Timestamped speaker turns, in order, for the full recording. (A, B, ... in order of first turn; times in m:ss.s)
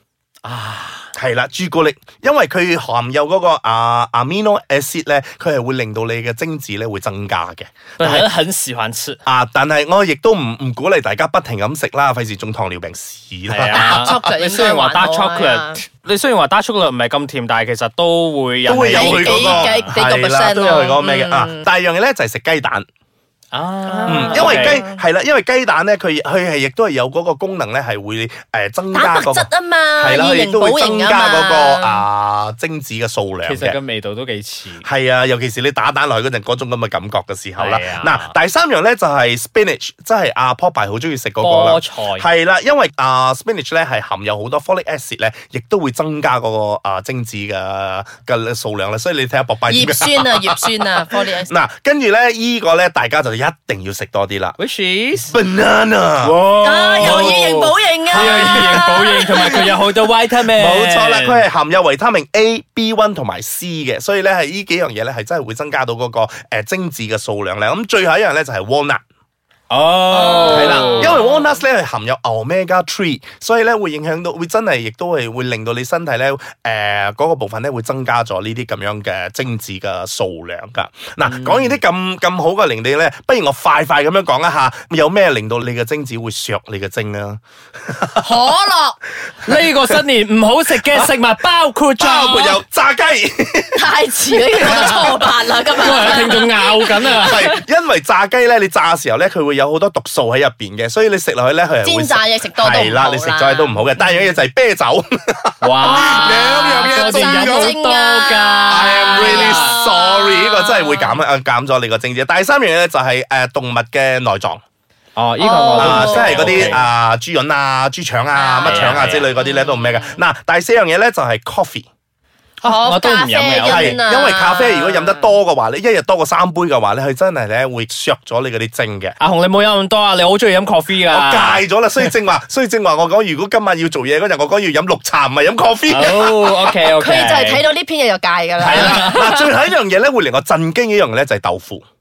0:00.4-0:01.1 A
0:01.2-0:08.3 B
0:08.0-0:09.2 A
0:09.3-0:14.3 B
0:13.5-0:19.9 A
0:13.7-0:15.8 C
0:18.7-0:22.9 B
0:18.9-0:21.7 C
0:23.5-0:24.8 A
0:23.9-0:25.0 C
0:24.1-0:33.8 B
0:28.9-0:32.1 C
0:33.4-0:34.8 A
0:34.8-0:54.6 B
0:37.6-0:38.3 A
0:41.4-0:42.3 A
0:49.7-0:51.5 C
0:54.6-0:55.3 A
0:55.3-0:56.3 B
0:56.2-1:01.4 A
0:56.6-0:59.7 C
0:57.0-0:57.5 B
0:58.1-0:59.7 B
1:00.5-1:09.0 B
1:09.7-1:11.2 A
1:10.1-1:11.5 C
1:10.5-1:28.3 B
1:21.2-1:21.8 A
1:28.2-1:29.0 C
1:29.4-1:32.6 A
1:32.0-1:33.9 B
1:33.8-1:37.5 C
1:34.6-1:35.1 A
1:34.6-1:35.2 B
1:35.7-1:37.5 A
1:37.1-1:47.8 B
1:41.8-1:43.9 C
1:45.6-1:49.8 A
1:45.8-1:51.2 C
1:48.7-1:54.6 B
1:55.2-1:56.8 A
1:55.4-1:56.8 C
1:55.8-2:01.9 B
1:58.3-2:00.2 C
1:58.7-1:59.3 A
2:02.6-2:04.0 A
2:02.6-2:05.3 C
2:03.6-2:09.2 B
2:09.2-2:11.6 A
2:11.1-2:16.4 B
2:15.9-2:17.6 A
2:17.0-2:19.5 C
2:18.6-2:21.8 B
2:18.7-2:19.2 A